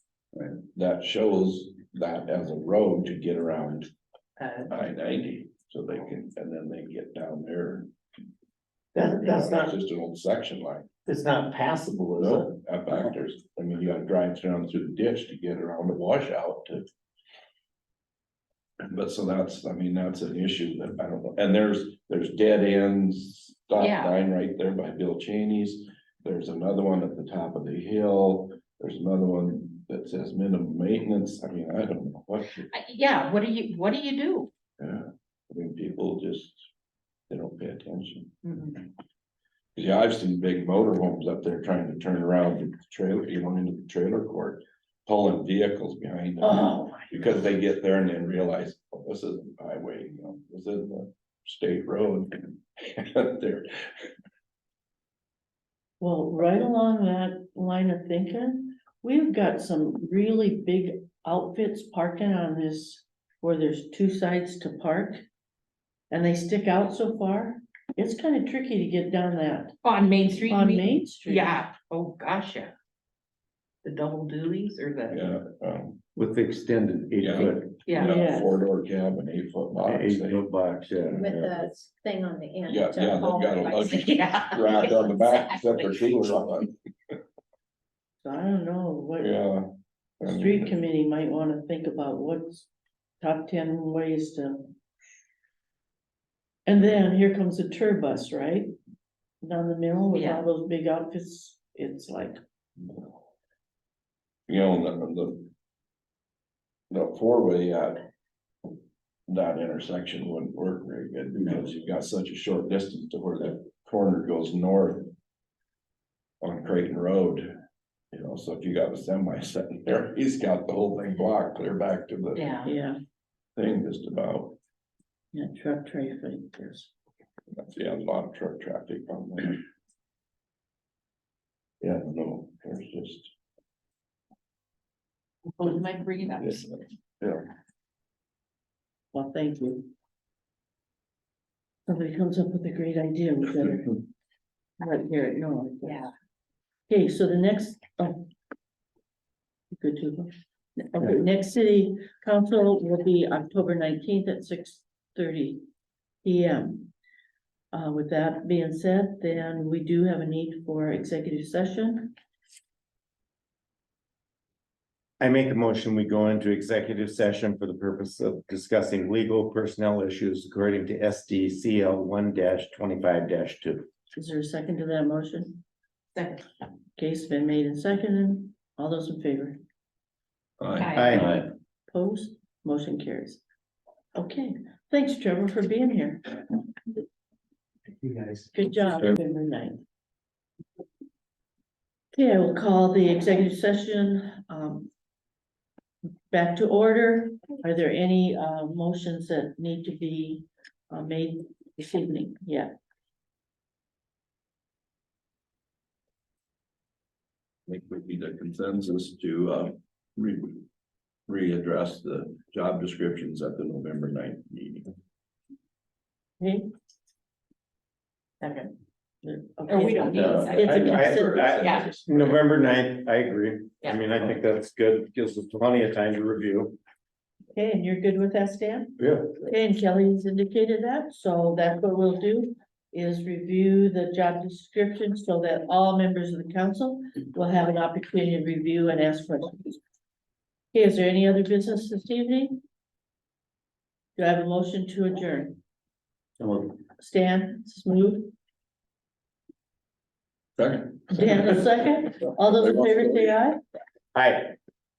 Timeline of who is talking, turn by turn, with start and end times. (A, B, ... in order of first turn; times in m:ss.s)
0:00.7-0:03.9 A
0:04.4-0:04.7 B
0:04.7-0:07.9 A
0:08.9-0:09.7 C
0:09.0-0:10.9 A
0:11.0-0:12.5 C
0:12.2-0:16.9 A
0:18.9-0:32.7 A
0:23.8-0:24.1 B
0:32.7-0:34.5 B
0:34.8-0:36.6 A
0:37.3-0:38.3 A
0:38.4-0:38.7 B
0:39.7-0:53.7 A
0:46.4-0:47.4 D
0:56.0-1:05.2 D
1:06.1-1:09.8 D
1:09.8-1:12.7 B
1:10.5-1:11.6 D
1:13.8-1:15.3 B
1:15.1-1:16.0 A
1:16.2-1:17.7 C
1:17.2-1:20.4 A
1:17.8-1:18.2 B
1:18.0-1:18.5 D
1:19.8-1:21.3 C
1:21.1-1:23.8 E
1:21.2-1:21.6 A
1:22.6-1:26.7 A
1:23.5-1:26.1 B
1:28.2-1:29.4 D
1:29.2-1:29.7 A
1:30.2-1:30.8 A
1:30.2-1:32.7 D
1:33.2-1:34.7 D
1:36.6-1:38.7 D
1:39.4-1:42.4 D
1:40.1-1:40.4 B
1:44.5-1:45.5 A
1:46.9-1:48.0 A
1:49.3-1:55.1 A
1:56.4-1:57.5 A
1:58.1-2:02.5 A
2:02.3-2:02.7 B
2:02.6-2:03.0 D
2:03.6-2:04.6 A
2:05.3-2:06.9 D
2:07.5-2:09.6 A
2:11.8-2:13.3 A
2:15.6-2:16.7 B
2:16.4-2:17.5 A
2:19.1-2:19.9 D
2:21.9-2:24.0 D
2:24.8-2:26.0 D
2:25.8-2:26.1 B
2:26.9-2:28.3 D
2:29.7-2:35.6 D
2:36.2-2:36.9 D
2:37.7-2:42.1 D
2:45.2-2:53.8 C
2:54.1-2:55.6 D
2:56.1-2:56.4 B
2:57.0-2:59.6 D
3:00.6-3:01.5 A
3:00.8-3:01.2 B
3:00.9-3:01.4 C
3:01.9-3:03.4 D
3:04.1-3:06.3 D
3:08.0-3:09.1 C
3:08.5-3:09.8 D
3:12.1-3:14.9 D
3:16.3-3:22.7 D
3:27.7-3:30.6 A
3:31.3-3:34.9 A
3:36.4-3:36.7 D
3:38.4-3:38.7 B
3:39.2-3:41.5 D
3:39.7-3:41.9 B
3:40.1-3:46.8 C
3:40.3-3:42.4 A
3:47.5-3:59.8 D
3:49.0-3:49.4 C
4:00.7-4:02.6 D
4:04.2-4:05.6 D
4:06.4-4:06.8 C
4:06.9-4:08.3 D
4:10.6-4:13.4 A
4:11.1-4:13.6 D
4:14.1-4:14.6 C